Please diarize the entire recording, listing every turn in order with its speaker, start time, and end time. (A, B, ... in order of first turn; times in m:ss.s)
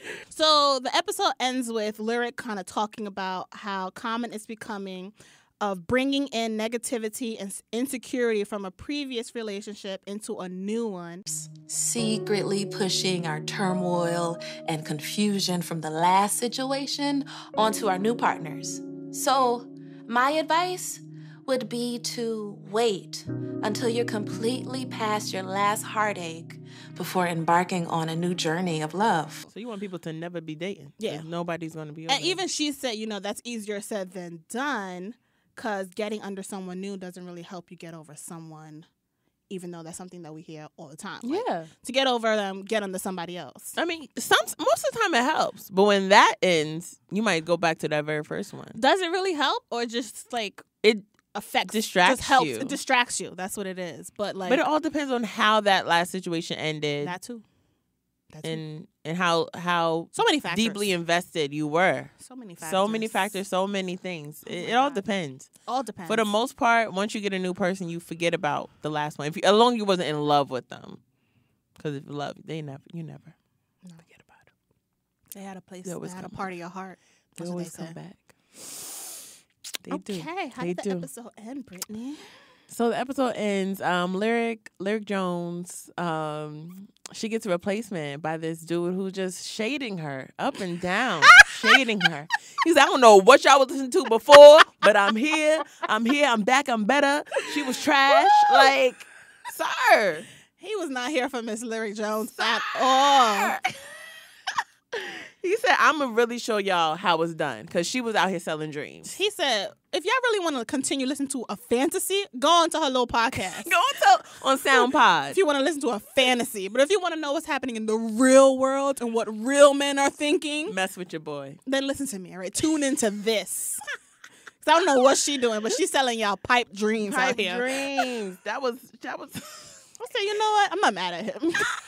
0:00.3-0:11.3 A
0:11.3-0:29.5 B
0:29.5-0:32.4 C
0:31.0-0:31.2 A
0:32.1-0:38.9 A
0:39.5-0:43.8 A
0:41.2-0:41.7 C
0:43.8-0:48.8 C
0:48.7-0:50.6 A
0:51.3-0:54.6 A
0:51.7-0:52.8 C
0:54.5-0:57.2 C
0:57.0-0:57.4 A
0:58.3-0:58.6 A
0:58.4-1:05.5 C
1:00.2-1:01.0 A
1:02.2-1:03.3 A
1:04.4-1:05.0 A
1:05.7-1:06.3 A
1:06.1-1:11.0 C
1:11.8-1:13.4 C
1:14.2-1:14.4 C
1:15.3-1:18.0 A
1:15.8-1:16.5 C
1:17.4-1:18.9 C
1:19.8-1:21.1 C
1:19.9-1:22.3 A
1:22.7-1:40.3 C
1:31.4-1:31.8 A
1:38.2-1:38.7 A
1:40.6-1:43.6 A
1:42.4-1:43.8 C
1:45.0-1:49.1 C
1:49.1-1:53.7 A
1:53.3-1:55.4 C
1:55.3-2:00.7 A
2:00.7-2:01.6 C
2:01.7-2:03.8 A
2:04.6-2:08.0 A
2:07.0-2:09.9 C
2:10.0-2:11.7 A